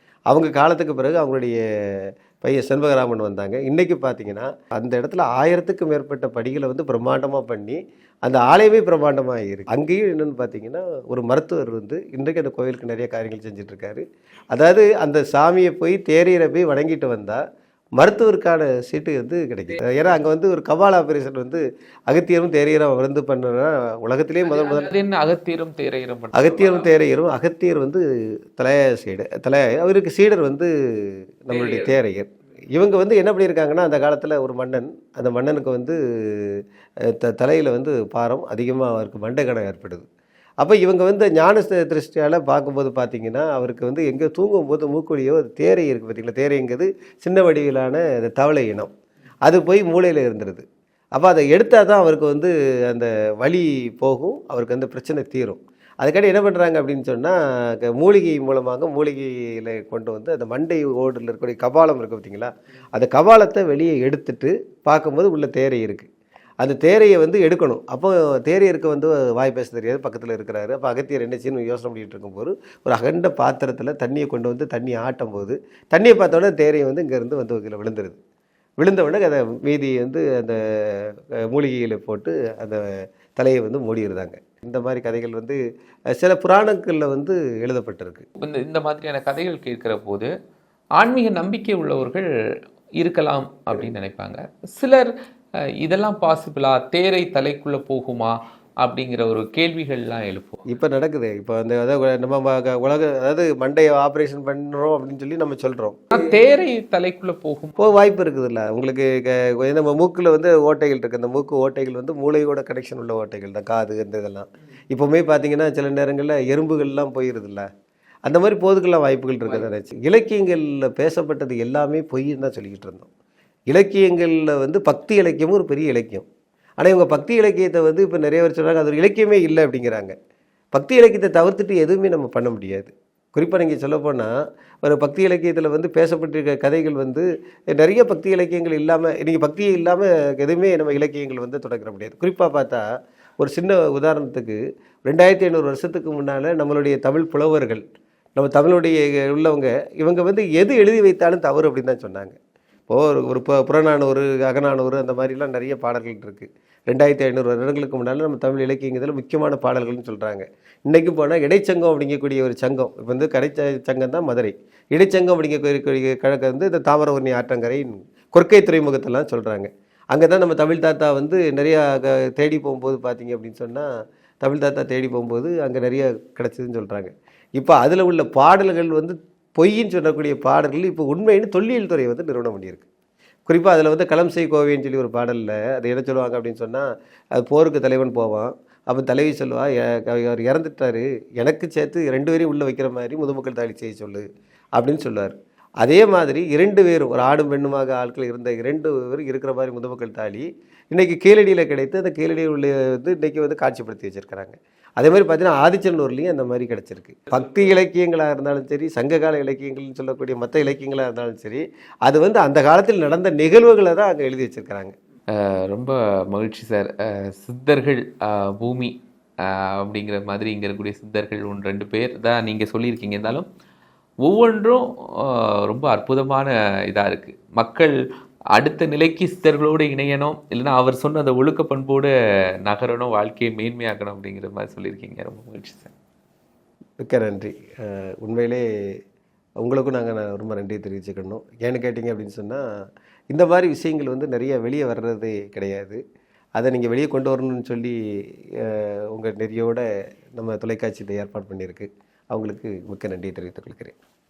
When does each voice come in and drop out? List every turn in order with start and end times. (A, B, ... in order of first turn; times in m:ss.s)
0:00.3-0:17.4 A
0:18.0-0:24.9 A
0:24.4-0:26.9 B
0:26.3-0:28.0 A
0:28.6-0:40.0 A
0:31.5-0:32.0 B
0:40.6-0:48.9 A
0:49.4-0:50.6 A
0:51.2-1:06.1 A
1:06.6-1:18.2 A
1:18.8-1:25.6 A
1:26.1-1:28.2 A
1:28.4-1:30.3 B
1:31.0-1:32.3 B
1:33.0-1:35.1 B
1:35.8-1:40.6 B
1:40.6-1:46.2 A
1:46.1-1:47.9 B
1:47.8-1:57.6 A
1:58.2-2:03.1 A
2:03.7-2:06.2 A
2:06.8-2:10.1 A
2:10.7-2:22.9 A
2:23.4-2:27.8 A
2:28.4-2:32.4 A
2:32.9-2:53.9 A
2:54.4-3:02.9 A
3:03.5-3:14.2 A
3:14.8-3:34.9 A
3:35.3-3:43.5 B
3:44.2-3:48.0 B
3:48.5-3:52.1 B
3:52.6-3:55.9 B
3:57.0-3:58.6 A
3:59.6-4:02.6 A
4:03.3-4:06.0 A
4:06.5-4:08.0 A
4:08.5-4:09.8 A
4:10.4-4:13.9 A